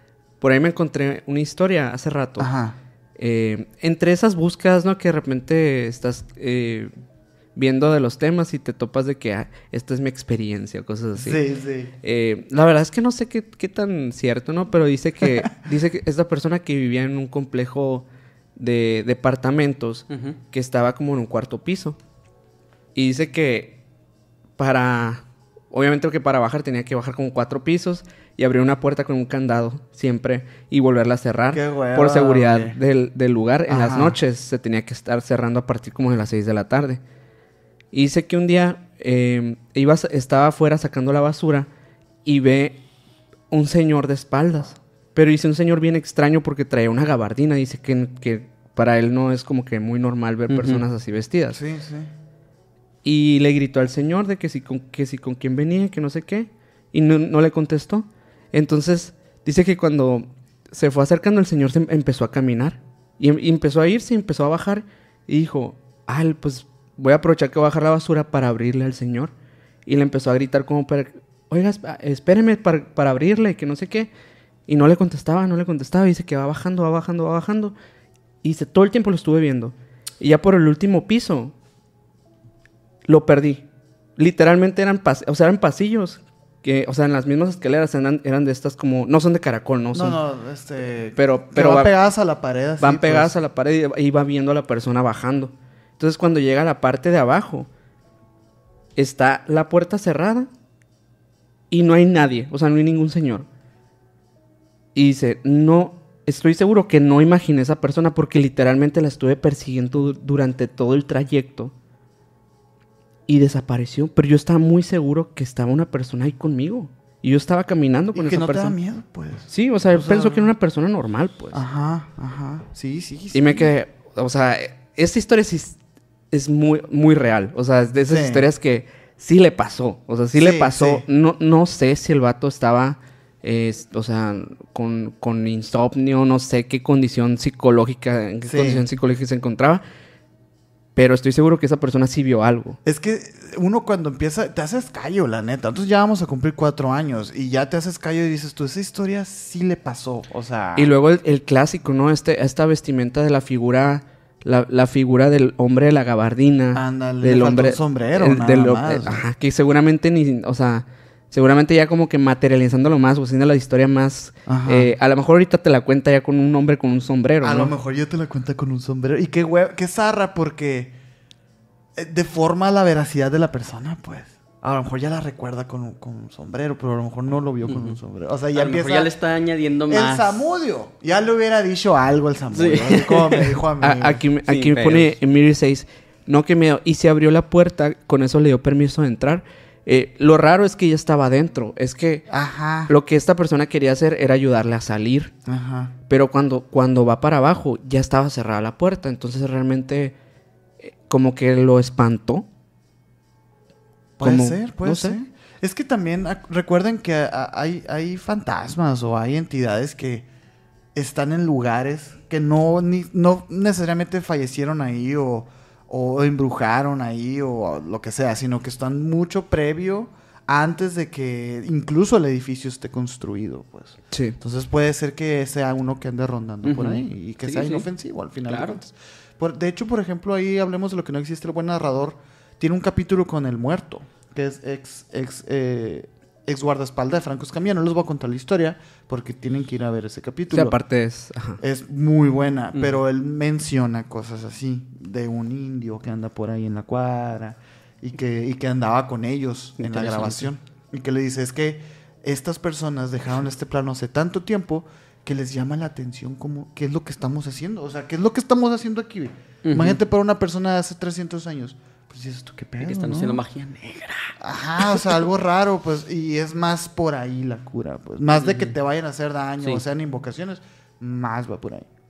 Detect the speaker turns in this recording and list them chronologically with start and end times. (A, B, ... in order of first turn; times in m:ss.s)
0:00.4-0:02.5 A
0:02.4-0:02.8 B
0:03.2-0:06.9 A
0:07.5-0:11.4 A
0:11.1-0:11.9 B
0:12.0-0:18.0 A
0:18.6-0:22.0 A
0:20.1-0:20.4 C
0:22.9-0:23.8 A
0:24.6-0:37.0 A
0:31.5-0:32.8 B
0:33.7-0:34.2 B
0:37.9-0:41.7 A
0:42.2-0:42.8 A
0:43.5-0:51.6 A
0:50.5-0:50.8 C
0:51.5-0:52.1 B
0:53.0-1:09.3 A
1:09.8-1:14.1 A
1:14.7-1:17.7 A
1:18.4-1:21.5 A
1:23.0-1:23.6 A
1:24.2-1:30.2 A
1:29.9-1:33.3 B
1:31.2-1:31.9 A
1:32.8-1:37.7 A
1:39.0-1:40.5 A
1:41.7-1:43.5 A
1:44.9-1:51.7 A
1:53.3-1:58.8 A
1:58.1-2:00.5 B
1:59.5-2:01.6 A
2:01.5-2:03.7 B
2:03.3-2:05.8 A
2:06.3-2:19.8 A
2:08.1-2:08.5 B
2:10.3-2:11.0 B
2:18.4-2:18.8 B
2:21.0-2:22.8 A
2:22.8-2:30.9 B
2:30.8-2:47.7 A
2:36.7-2:39.2 B
2:44.5-2:44.9 B
2:47.4-2:50.9 B
2:52.0-2:59.1 B
2:57.6-2:58.0 C
2:58.5-3:00.4 C
2:59.9-3:04.2 B
3:02.5-3:03.6 C
3:03.8-3:12.2 A
3:04.5-3:05.1 C
3:12.3-3:12.9 B
3:12.9-3:15.3 A
3:15.4-3:15.9 B
3:16.1-3:20.1 A
3:20.8-3:22.4 A
3:24.2-3:30.3 B
3:24.2-3:25.2 A
3:30.9-4:00.8 B
3:44.1-3:44.4 A
3:46.6-3:47.9 C
3:48.5-3:48.8 C
4:00.5-4:01.6 A
4:01.6-4:23.4 B
4:09.8-4:10.5 C
4:19.6-4:20.0 C
4:22.8-4:25.2 C
4:24.4-4:31.9 B
4:28.4-4:28.8 C